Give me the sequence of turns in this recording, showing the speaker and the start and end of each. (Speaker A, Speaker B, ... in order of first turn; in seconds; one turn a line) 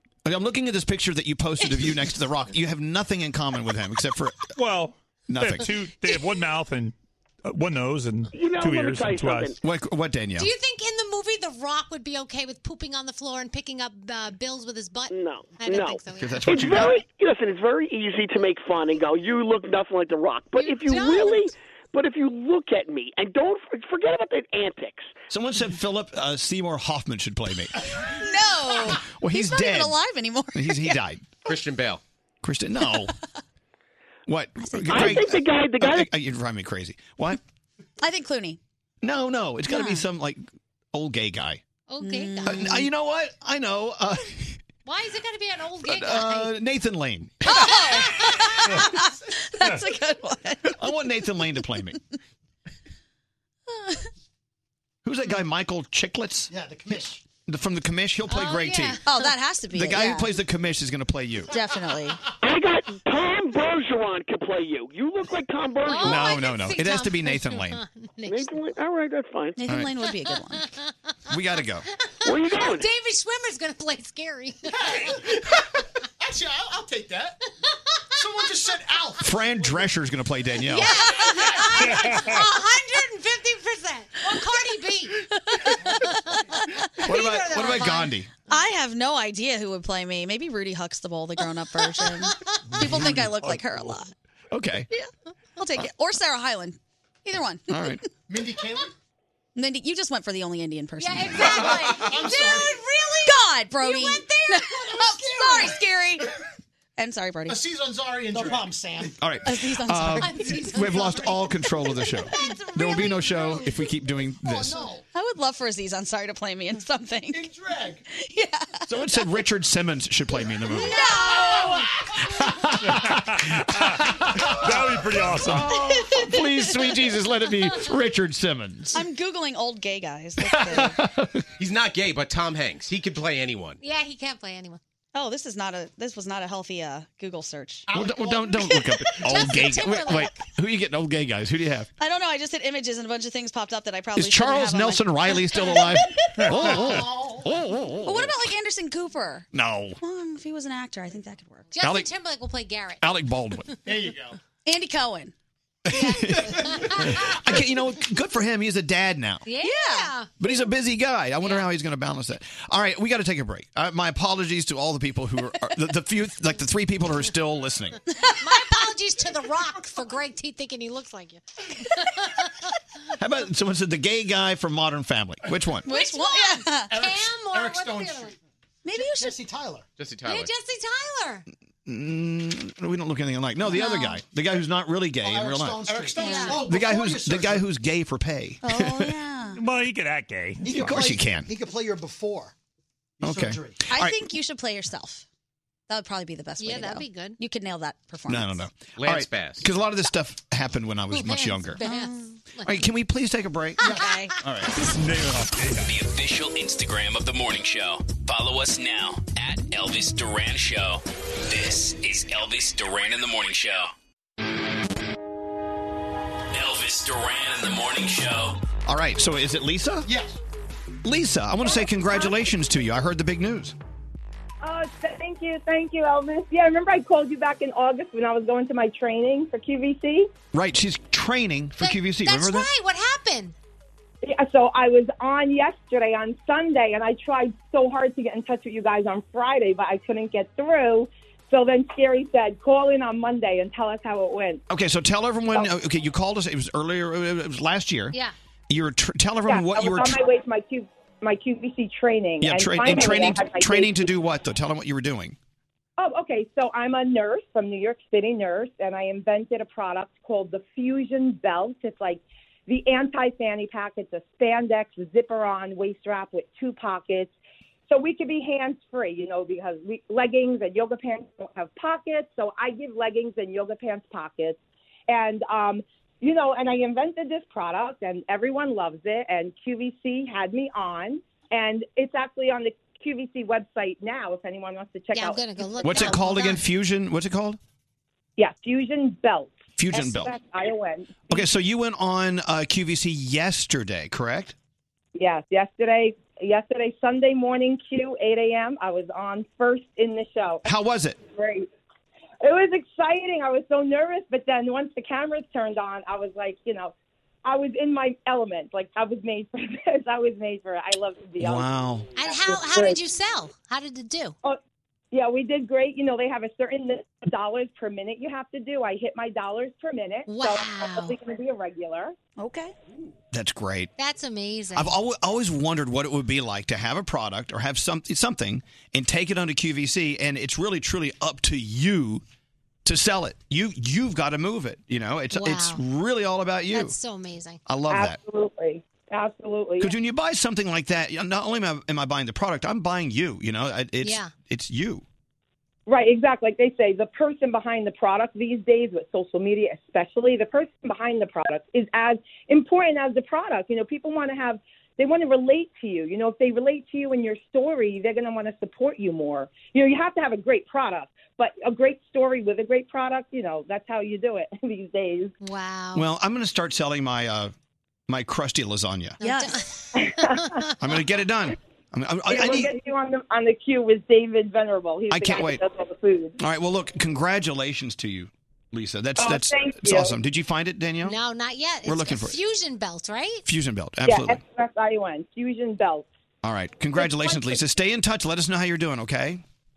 Speaker A: 0.2-4.5
Speaker B: 4.6-6.9
Speaker A: 5.3-5.8
Speaker B: 7.5-9.6
Speaker C: 8.3-9.6
Speaker A: 9.6-10.5
Speaker D: 10.4-17.0
Speaker C: 15.1-25.1
Speaker A: 16.2-17.0
Speaker D: 20.6-21.5
Speaker A: 25.3-27.8
Speaker E: 28.0-31.0
Speaker A: 28.9-30.0
Speaker A: 30.5-31.3
Speaker F: 31.4-32.0
Speaker A: 32.4-33.1
Speaker A: 34.3-37.4
Speaker E: 34.6-35.3
Speaker C: 34.9-36.1
Speaker E: 38.0-38.6
Speaker A: 39.0-41.6
Speaker E: 39.7-40.1
Speaker D: 41.9-42.7
Speaker E: 42.0-42.9
Speaker A: 42.5-44.6
Speaker D: 44.9-46.6
Speaker A: 45.9-47.7
Speaker E: 47.5-50.8
Speaker D: 47.5-48.5
Speaker A: 50.7-52.0
Speaker E: 53.7-54.0
Speaker A: 55.0-56.5
Speaker G: 56.5-57.2
Speaker H: 56.9-57.1
Speaker A: 57.5-59.0
Speaker D: 58.3-59.2
Speaker E: 59.1-60.3
Speaker A: 59.7-61.5
Speaker E: 61.5-62.2
Speaker C: 62.4-66.4
Speaker D: 65.8-68.6
Speaker A: 66.0-67.8
Speaker C: 68.3-69.6
Speaker E: 69.6-70.7
Speaker A: 69.7-69.9
Speaker A: 71.3-71.9
Speaker C: 72.2-72.9
Speaker D: 72.2-75.2
Speaker H: 74.7-75.4
Speaker H: 76.2-77.4
Speaker H: 78.2-79.3
Speaker A: 79.2-81.1
Speaker D: 80.6-86.5
Speaker E: 81.0-81.7
Speaker B: 81.8-82.4
Speaker E: 85.6-86.8
Speaker D: 87.0-88.1
Speaker A: 87.0-88.3
Speaker E: 87.6-87.9
Speaker E: 88.5-94.1
Speaker A: 92.8-93.6
Speaker A: 94.5-94.9
Speaker E: 94.9-98.0
Speaker A: 97.7-98.0
Speaker H: 98.3-98.9
Speaker E: 99.5-102.2
Speaker D: 101.0-105.8
Speaker H: 101.4-102.8
Speaker E: 103.2-106.3
Speaker H: 105.4-105.6
Speaker E: 107.0-107.6
Speaker H: 107.5-109.1
Speaker G: 108.4-109.0
Speaker A: 109.2-114.9
Speaker E: 109.5-110.7
Speaker D: 110.2-113.8
Speaker H: 114.4-115.0
Speaker E: 115.1-117.5
Speaker H: 117.3-118.0
Speaker E: 118.1-118.9
Speaker A: 118.9-121.0
Speaker E: 120.7-121.9
Speaker A: 122.3-129.0
Speaker B: 122.9-125.8
Speaker E: 128.9-131.0
Speaker A: 130.4-131.4
Speaker F: 131.6-133.8
Speaker D: 133.8-134.8
Speaker E: 135.1-137.9
Speaker H: 137.9-138.8
Speaker A: 137.9-141.9
Speaker D: 139.2-140.4
Speaker E: 142.0-146.0
Speaker A: 144.2-148.3
Speaker H: 146.5-147.5
Speaker E: 148.0-149.5
Speaker A: 149.5-150.0
Speaker E: 150.0-151.7
Speaker D: 151.7-153.0
Speaker A: 151.8-152.1
Speaker A: 153.0-153.7
Speaker H: 153.9-154.4
Speaker E: 154.7-155.3
Speaker A: 155.9-159.4
Speaker D: 156.0-157.3
Speaker D: 159.5-160.3
Speaker E: 159.6-160.1
Speaker A: 160.4-168.0
Speaker D: 168.4-172.5
Speaker A: 173.2-175.9
Speaker E: 175.8-176.9
Speaker D: 175.9-178.3
Speaker H: 176.9-178.3
Speaker E: 178.8-179.4
Speaker H: 179.1-179.8
Speaker F: 180.0-180.5
Speaker D: 180.3-181.4
Speaker A: 181.9-189.2
Speaker E: 183.7-184.2
Speaker G: 185.3-186.1
Speaker H: 185.3-187.4
Speaker E: 186.2-186.7
Speaker D: 186.2-186.6
Speaker G: 186.7-187.6
Speaker E: 188.6-189.6
Speaker B: 189.6-190.8
Speaker G: 190.6-192.5
Speaker A: 190.7-191.5
Speaker A: 193.2-194.2
Speaker G: 193.2-193.8
Speaker E: 193.9-195.3
Speaker E: 195.9-198.7
Speaker D: 196.6-197.4
Speaker A: 198.3-201.8
Speaker F: 199.0-199.7
Speaker D: 201.1-202.8
Speaker E: 201.8-202.3
Speaker A: 202.6-203.9
Speaker D: 203.8-204.2
Speaker E: 203.8-204.3
Speaker A: 204.4-204.7
Speaker B: 204.8-205.8
Speaker I: 205.7-213.9
Speaker I: 216.5-218.6
Speaker A: 218.8-220.1
Speaker H: 220.1-220.3
Speaker A: 221.0-223.8
Speaker J: 224.6-230.3
Speaker A: 230.5-232.7
Speaker D: 231.8-233.6
Speaker J: 234.2-244.6
Speaker A: 244.7-248.2
Speaker A: 248.7-250.2
Speaker J: 249.5-254.1
Speaker A: 252.4-255.4
Speaker J: 256.0-267.3
Speaker J: 267.9-274.6
Speaker J: 275.1-285.5
Speaker D: 285.1-286.6
Speaker A: 285.8-287.6
Speaker J: 288.4-291.4
Speaker A: 289.8-290.4
Speaker A: 291.3-294.6
Speaker J: 295.1-300.7
Speaker A: 300.7-301.2
Speaker J: 301.2-301.7
Speaker J: 302.4-306.9
Speaker J: 307.4-311.7
Speaker A: 311.4-312.1
Speaker D: 312.2-314.4
Speaker J: 312.2-313.0
Speaker J: 315.1-322.1
Speaker D: 320.3-321.2
Speaker E: 322.4-322.7
Speaker A: 323.3-323.9
Speaker D: 324.0-324.9
Speaker A: 324.7-332.2
Speaker A: 332.9-336.9
Speaker D: 335.3-335.8
Speaker D: 336.7-337.6
Speaker A: 337.7-338.2
Speaker J: 337.9-339.9
Speaker A: 339.8-345.0
Speaker D: 344.0-344.3
Speaker J: 345.9-365.3
Speaker D: 365.4-366.1
Speaker A: 365.9-367.5
Speaker A: 368.1-369.2
Speaker D: 369.2-370.7
Speaker E: 369.2-369.6
Speaker J: 369.9-370.6
Speaker A: 370.8-372.7
Speaker J: 372.3-376.4
Speaker A: 375.1-375.6
Speaker A: 376.4-381.2
Speaker J: 379.2-380.2
Speaker D: 381.0-383.4
Speaker A: 381.9-382.4
Speaker A: 383.4-384.4
Speaker J: 384.0-386.1
Speaker A: 386.4-389.4
Speaker J: 387.0-387.6